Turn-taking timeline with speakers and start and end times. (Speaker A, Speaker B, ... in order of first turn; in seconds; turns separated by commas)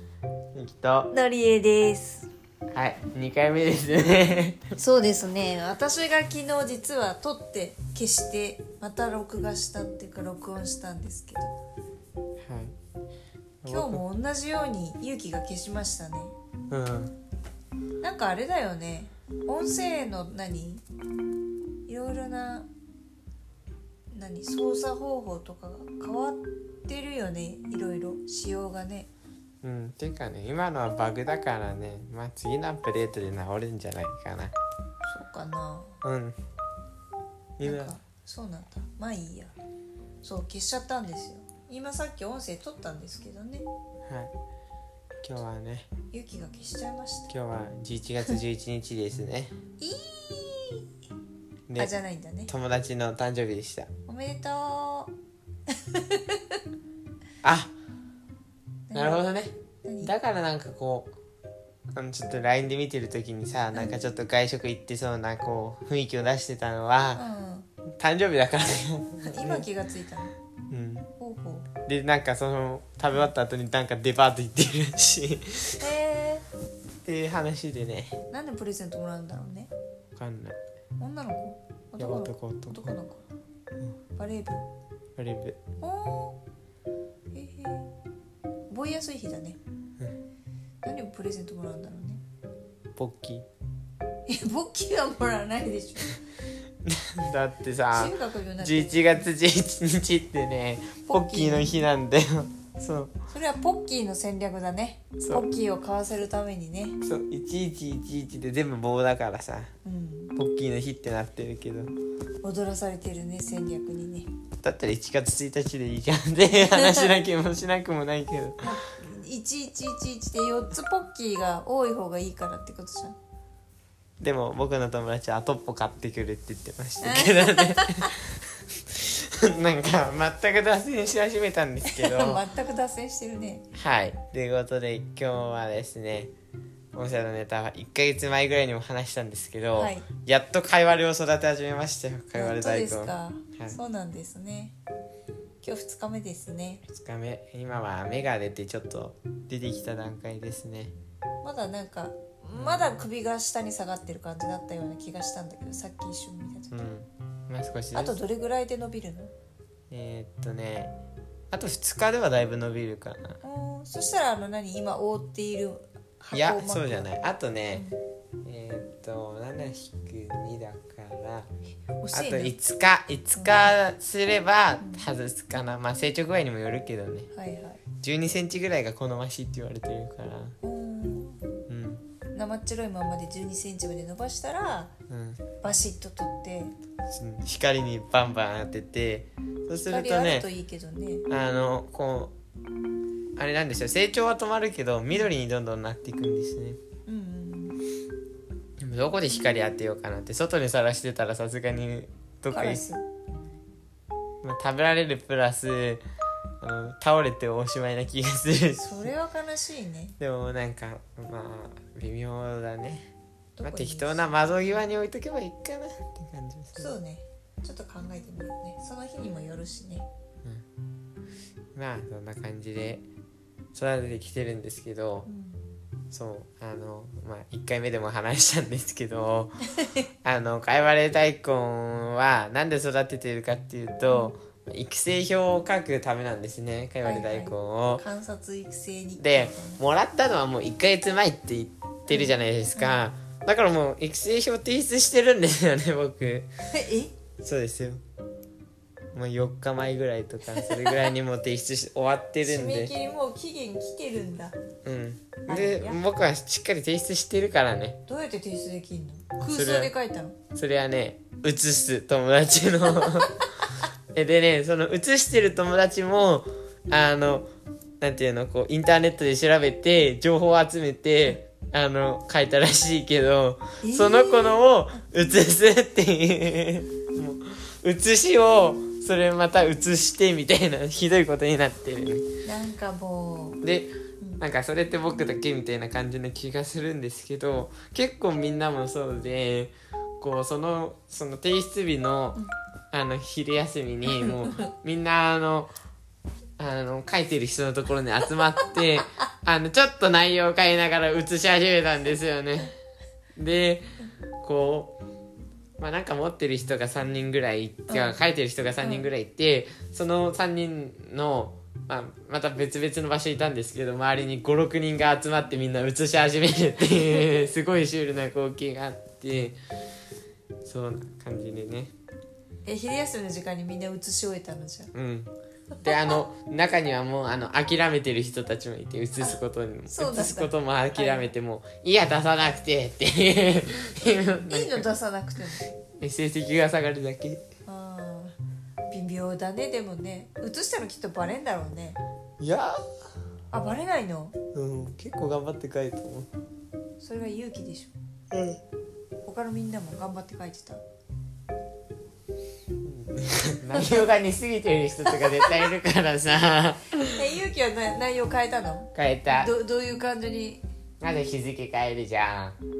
Speaker A: 0.5-1.1, Speaker B: 1.1-2.3, Speaker A: 2.7-4.6, Speaker B: 4.8-11.5, Speaker A: 12.4-12.7, Speaker A: 13.6-14.0, Speaker B: 13.7-16.3, Speaker A: 16.7-17.1, Speaker B: 18.0-20.8, Speaker B: 21.9-22.7, Speaker B: 24.1-29.1, Speaker A: 29.6-34.5, Speaker B: 35.0-35.9, Speaker A: 36.0-36.4, Speaker A: 37.6-37.9, Speaker B: 37.6-39.5, Speaker B: 40.2-43.7, Speaker A: 44.1-44.3, Speaker A: 45.2-45.9, Speaker B: 46.1-47.3, Speaker A: 47.3-49.5, Speaker B: 49.8-50.8, Speaker B: 51.8-52.5, Speaker A: 52.5-53.9, Speaker B: 54.1-55.1, Speaker B: 55.7-56.6, Speaker A: 57.4-57.7, Speaker B: 58.9-59.2, Speaker A: 58.9-61.1, Speaker B: 59.8-60.1, Speaker A: 61.9-67.2, Speaker B: 67.1-67.7, Speaker A: 68.0-69.6, Speaker B: 69.2-70.3, Speaker A: 70.7-71.1, Speaker B: 71.2-71.7, Speaker A: 71.8-75.8, Speaker B: 75.8-76.5, Speaker A: 77.0-78.1, Speaker B: 78.3-79.7, Speaker A: 80.2-80.6, Speaker B: 81.0-83.2, Speaker A: 82.0-83.0, Speaker B: 84.2-84.7, Speaker A: 85.2-85.6, Speaker B: 85.8-86.4, Speaker B: 87.3-87.9, Speaker B: 88.7-89.6, Speaker B: 90.8-92.2, Speaker A: 93.0-93.5, Speaker B: 94.3-96.2, Speaker A: 96.8-103.1, Speaker B: 97.9-99.0, Speaker B: 101.1-101.8, Speaker B: 103.3-107.0, Speaker A: 107.0-109.7, Speaker B: 109.8-110.3, Speaker A: 110.3-111.9, Speaker B: 112.4-114.3, Speaker A: 114.6-118.7, Speaker B: 116.6-117.2, Speaker B: 118.6-123.2, Speaker A: 124.2-132.4, Speaker B: 127.0-128.2, Speaker B: 131.8-133.6, Speaker A: 133.7-136.3, Speaker A: 136.9-143.8, Speaker B: 139.8-140.1, Speaker B: 142.3-144.7, Speaker B: 145.6-146.8, Speaker A: 146.9-150.9, Speaker B: 151.4-156.7, Speaker A: 152.5-153.1, Speaker A: 156.7-158.2, Speaker B: 157.9-159.3, Speaker A: 159.9-160.9, Speaker A: 161.5-163.4, Speaker B: 163.4-167.1, Speaker A: 166.3-167.8, Speaker A: 168.4-171.5, Speaker B: 172.0-172.5, Speaker A: 172.1-177.3, Speaker B: 173.3-173.7, Speaker B: 174.8-175.1, Speaker B: 177.3-177.8, Speaker A: 178.0-180.5, Speaker B: 180.6-181.4, Speaker A: 181.7-182.0, Speaker B: 182.3-184.9, Speaker A: 185.1-185.4, Speaker B: 185.6-186.7, Speaker A: 187.1-190.5, Speaker B: 189.8-191.2, Speaker A: 191.3-192.3, Speaker A: 193.3-196.8, Speaker B: 197.1-197.8, Speaker A: 198.8-202.8, Speaker B: 202.5-203.0, Speaker A: 204.4-206.0, Speaker A: 206.6-209.1, Speaker B: 208.8-210.1, Speaker A: 210.2-216.9, Speaker B: 213.6-214.8, Speaker B: 216.8-220.1, Speaker A: 221.7-223.0, Speaker A: 223.7-225.3, Speaker B: 225.3-225.6, Speaker A: 226.1-229.6, Speaker A: 230.2-238.0, Speaker B: 237.0-239.8, Speaker A: 239.2-246.5, Speaker B: 242.1-243.0, Speaker B: 246.7-247.1, Speaker A: 247.4-248.0, Speaker A: 249.1-252.9, Speaker B: 250.6-251.1, Speaker B: 252.4-254.6, Speaker A: 254.8-258.0, Speaker B: 255.5-256.0, Speaker B: 258.1-260.4, Speaker A: 259.4-259.9, Speaker A: 260.5-263.4, Speaker A: 264.1-267.5, Speaker A: 268.0-282.2, Speaker B: 273.8-274.6, Speaker B: 282.4-283.6, Speaker A: 283.6-295.7, Speaker B: 294.1-294.7, Speaker A: 296.6-302.7, Speaker A: 303.4-303.9, Speaker A: 304.4-304.9, Speaker A: 305.8-319.6, Speaker B: 307.9-308.2, Speaker B: 308.8-309.1, Speaker A: 320.6-321.9, Speaker B: 322.6-324.9, Speaker A: 324.9-334.9, Speaker B: 329.9-331.3, Speaker B: 334.5-335.6, Speaker A: 335.6-337.4, Speaker B: 337.6-338.4, Speaker B: 338.9-342.0, Speaker A: 342.4-342.8, Speaker B: 343.5-344.4, Speaker A: 344.5-346.3, Speaker B: 347.0-347.9, Speaker A: 348.3-348.6, Speaker B: 349.2-350.8, Speaker A: 352.8-357.0, Speaker B: 353.7-354.1, Speaker B: 357.1-360.6, Speaker A: 358.9-359.5, Speaker A: 361.0-362.6